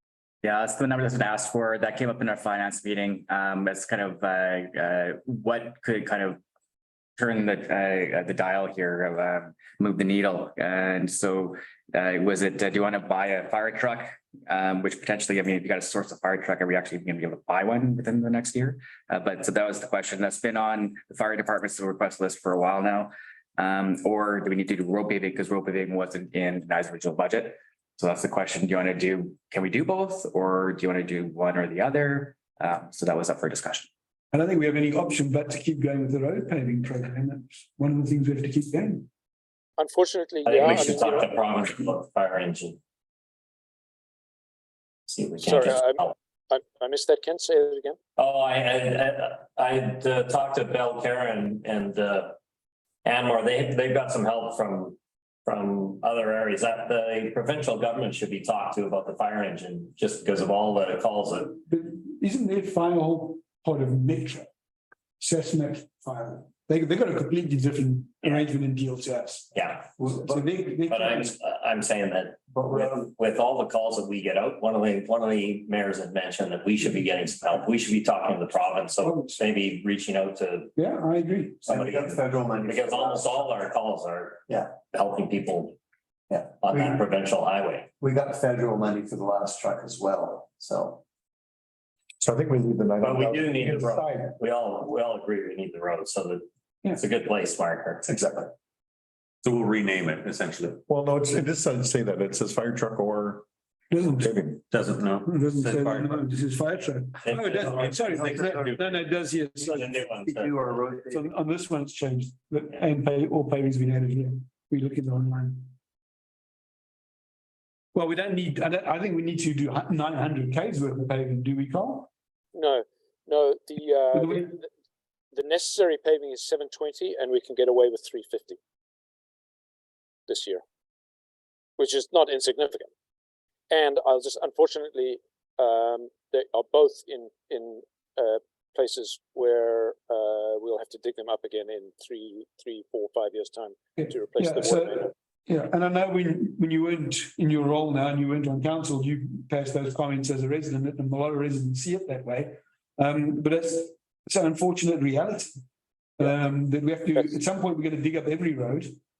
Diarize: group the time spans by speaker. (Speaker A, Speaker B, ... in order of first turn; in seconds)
Speaker A: 0.4-6.4, 7.2-33.9
Speaker B: 34.3-39.1, 61.7-64.5, 65.2-69.5, 70.2-71.3, 79.0-79.4, 80.8-81.7, 103.9-104.5, 105.2-109.8, 111.0-115.7, 117.9-122.1, 124.1-124.5, 144.0-155.5, 156.2-158.9
Speaker C: 39.8-41.3, 45.4-48.0, 122.5-124.7, 125.3-128.6, 130.3-130.6, 131.8-132.9, 133.7-145.1
Speaker D: 40.4-42.8, 45.1-46.1, 48.2-52.4, 53.0-61.6, 69.5-69.9, 70.9-80.7, 81.6-85.8, 86.5-87.9, 93.0-98.0, 107.2-109.0, 109.6-110.6
Speaker E: 70.0-70.4, 72.5-73.0, 81.6-83.4, 84.5-84.8, 86.3-87.0, 88.0-91.0, 108.1-108.7, 110.1-111.3
Speaker F: 92.2-94.3, 98.1-98.5, 100.9-103.5, 104.1-104.6
Speaker G: 99.4-100.8, 104.7-106.3